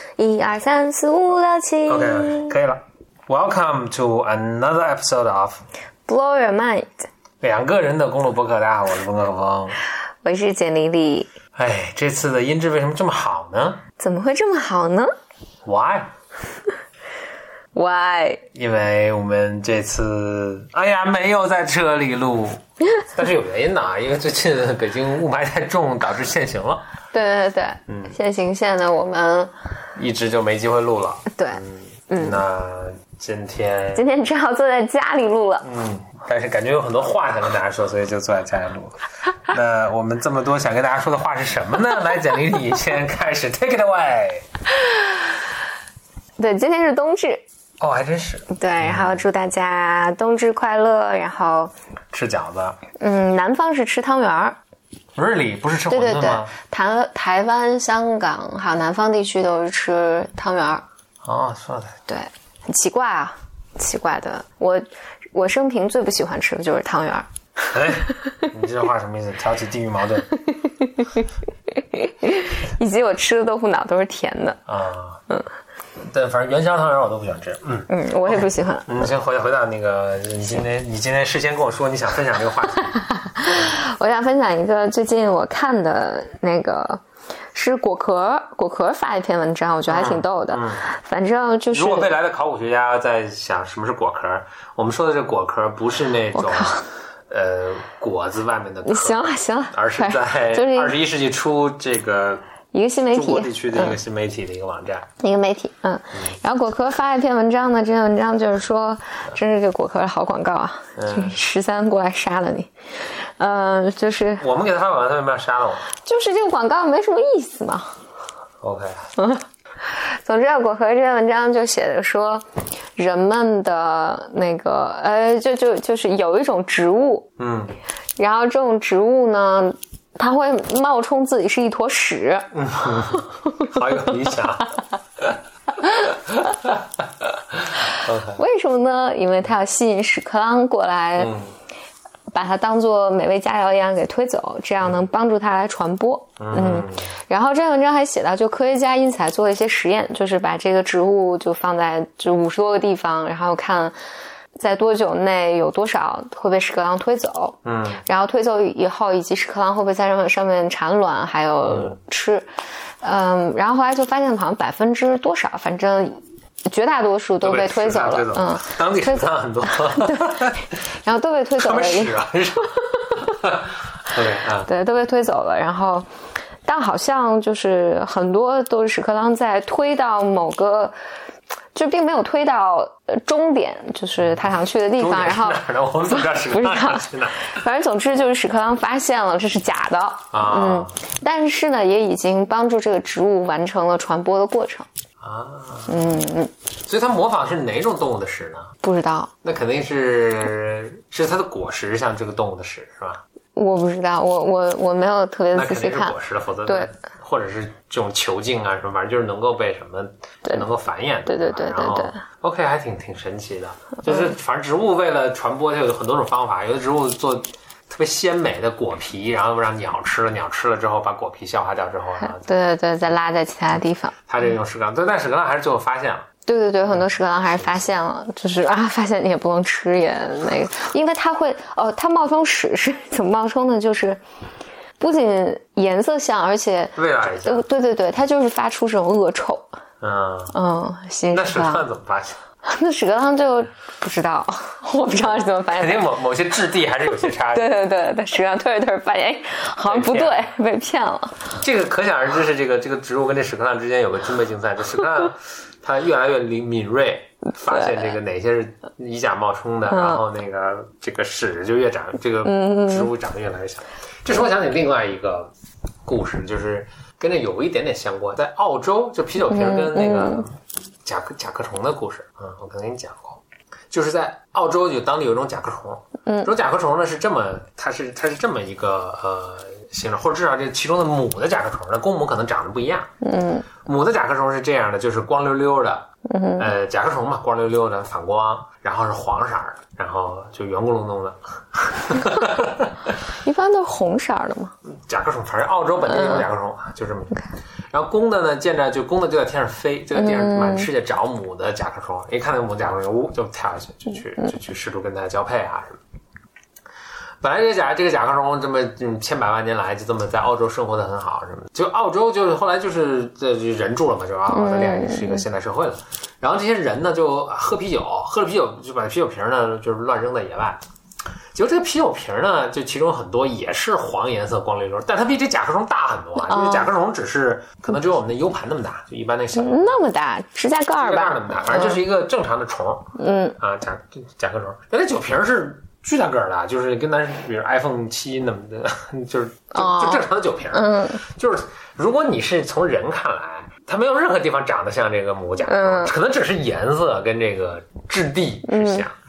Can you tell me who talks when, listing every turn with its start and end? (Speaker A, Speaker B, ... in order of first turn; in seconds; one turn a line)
Speaker A: 0.2-2.5
Speaker B: 1.9-5.6
Speaker A: 6.1-7.1
Speaker B: 7.4-9.8
Speaker A: 10.2-11.3
Speaker B: 11.6-13.8
Speaker A: 14.0-15.1
Speaker B: 15.7-16.1
Speaker A: 17.7-18.4
Speaker B: 18.5-26.8
Speaker A: 27.1-29.5
Speaker B: 27.9-28.1
Speaker B: 30.0-34.1
Speaker A: 31.3-32.4
Speaker A: 34.0-35.7
Speaker B: 35.6-44.5
Speaker A: 46.4-47.4
Speaker B: 47.8-49.2
Speaker A: 48.5-51.7
Speaker B: 52.1-52.8
Speaker A: 53.0-54.6
Speaker B: 55.2-56.5
Speaker A: 55.9-60.8
Speaker B: 61.2-62.0
Speaker A: 62.1-68.4
Speaker B: 67.7-70.3
Speaker A: 70.3-74.6
Speaker B: 74.7-75.2
Speaker B: 76.0-83.8
Speaker A: 77.9-79.1
Speaker A: 83.0-87.0
Speaker A: 87.5-92.1
Speaker B: 89.9-90.8
Speaker B: 91.7-102.4
Speaker A: 96.3-96.8
Speaker A: 98.8-101.0
Speaker A: 102.7-104.0
Speaker B: 103.1-105.1
Speaker A: 105.2-114.5
Speaker B: 111.0-111.4
Speaker B: 114.4-115.9
Speaker A: 116.0-117.9
Speaker B: 118.6-118.9
Speaker A: 119.2-122.4
Speaker A: 123.0-127.3
Speaker B: 127.4-127.7
Speaker A: 128.2-132.5
Speaker B: 132.5-134.7
Speaker A: 133.2-133.6
Speaker B: 136.0-138.4
Speaker A: 138.3-141.3
Speaker B: 141.2-141.5
Speaker A: 142.3-153.9
Speaker B: 146.4-147.1
Speaker A: 154.6-162.5
Speaker B: 157.7-158.0
Speaker B: 161.7-161.9
Speaker A: 163.0-172.2
Speaker B: 167.4-170.7
Speaker B: 171.6-174.7
Speaker A: 174.7-176.1
Speaker A: 176.7-180.9
Speaker A: 181.7-194.9
Speaker B: 185.0-187.5
Speaker B: 190.3-191.0
Speaker B: 195.2-196.2
Speaker A: 195.9-196.5
Speaker B: 196.9-198.7
Speaker A: 198.8-199.3
Speaker B: 199.4-203.2
Speaker A: 203.6-206.2
Speaker B: 205.5-222.5
Speaker A: 211.3-212.2
Speaker A: 222.4-224.2
Speaker B: 224.3-226.3
Speaker A: 226.5-234.2
Speaker A: 235.0-239.8
Speaker B: 237.0-237.7
Speaker B: 240.0-240.6
Speaker A: 240.5-241.8
Speaker B: 241.3-242.4
Speaker A: 242.7-246.1
Speaker B: 245.3-247.8
Speaker A: 247.5-251.5
Speaker B: 249.8-250.5
Speaker B: 251.6-265.5
Speaker A: 257.7-258.1
Speaker A: 259.9-260.2
Speaker A: 262.4-263.1
Speaker B: 266.1-283.1
Speaker A: 269.5-270.5
Speaker A: 283.2-283.7
Speaker B: 283.9-286.1
Speaker A: 286.3-286.7
Speaker B: 286.6-292.9
Speaker A: 293.4-294.7
Speaker B: 294.9-297.4
Speaker A: 296.1-296.5
Speaker B: 297.9-306.0
Speaker A: 300.1-300.9
Speaker B: 307.4-320.8
Speaker A: 314.5-315.4
Speaker B: 321.5-330.0
Speaker A: 326.4-326.9
Speaker A: 329.6-332.0
Speaker B: 331.0-349.1
Speaker A: 333.2-333.6
Speaker A: 339.7-341.2
Speaker A: 345.6-346.1
Speaker A: 348.7-349.1